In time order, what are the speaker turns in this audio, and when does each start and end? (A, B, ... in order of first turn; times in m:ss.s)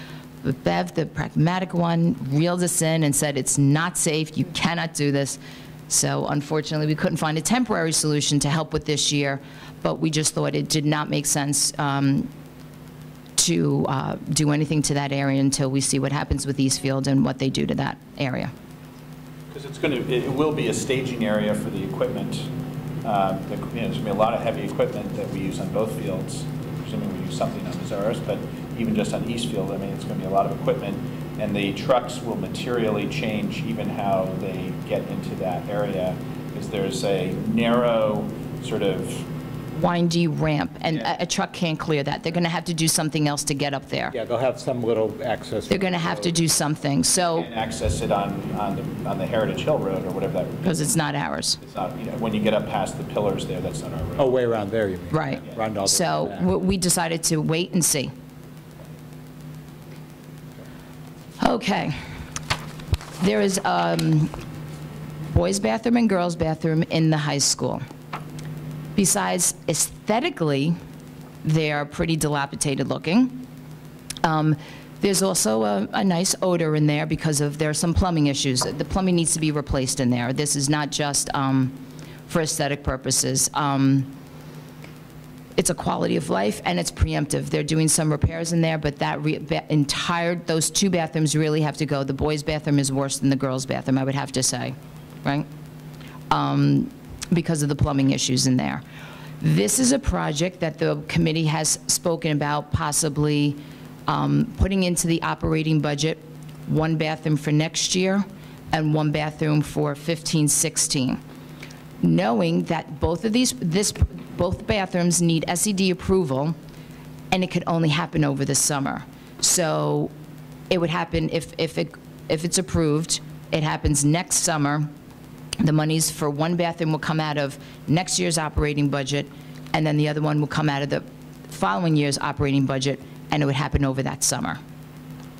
0:00.4-0:12.3 A
0:13.4-0:18.5 A
0:19.5-0:22.5 B
0:23.0-0:39.3 B
0:39.8-0:44.1 A
0:44.1-0:46.4 C
0:45.7-0:47.5 A
0:47.2-0:51.0 B
0:50.6-0:51.6 A
0:51.6-0:54.6 B
0:54.2-0:56.5 C
0:55.1-0:58.1 A
1:01.4-1:02.0 A
1:03.2-1:04.3 A
1:05.3-1:07.8 A
1:09.0-1:10.8 A
1:11.4-1:13.4 A
1:14.2-1:24.1 A
1:25.6-1:35.5 A
1:36.3-1:38.8 A
1:39.4-1:51.2 A
1:52.0-1:56.6 A
1:57.3-2:00.1 A
2:00.7-2:04.9 A
2:05.6-2:14.6 A